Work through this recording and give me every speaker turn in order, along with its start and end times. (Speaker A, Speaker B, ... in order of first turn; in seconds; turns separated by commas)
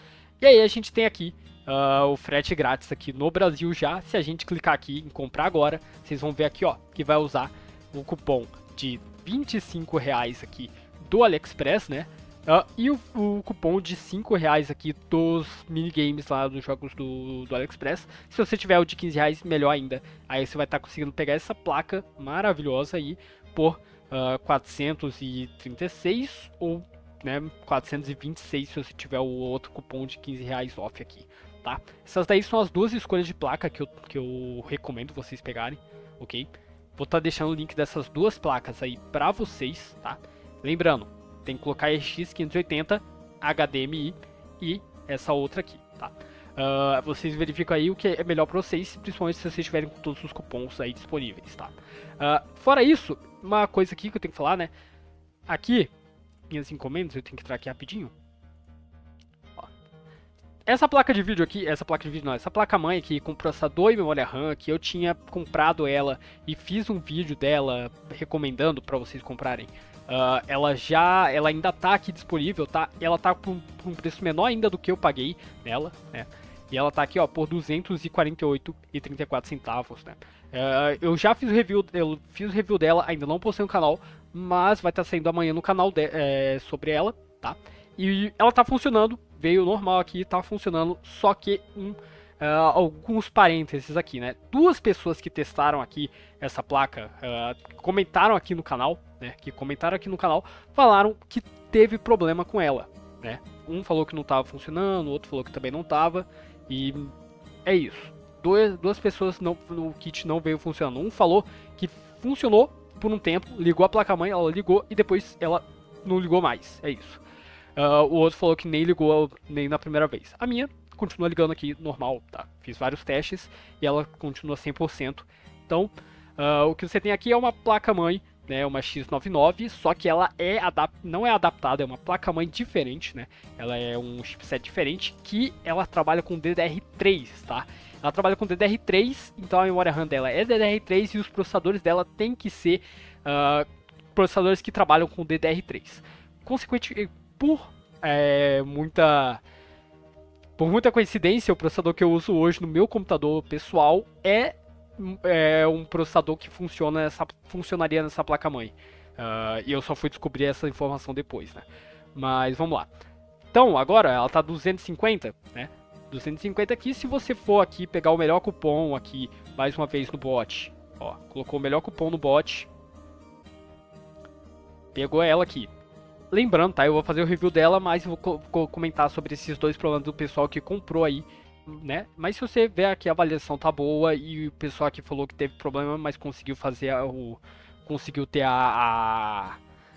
Speaker A: 0.4-54.7, Speaker A: 55.5-55.9, Speaker A: 56.5-58.1, Speaker A: 60.7-107.1, Speaker A: 107.7-117.2, Speaker A: 117.8-149.4, Speaker A: 150.6-162.9, Speaker A: 163.5-172.7, Speaker A: 174.9-175.7, Speaker A: 176.3-189.6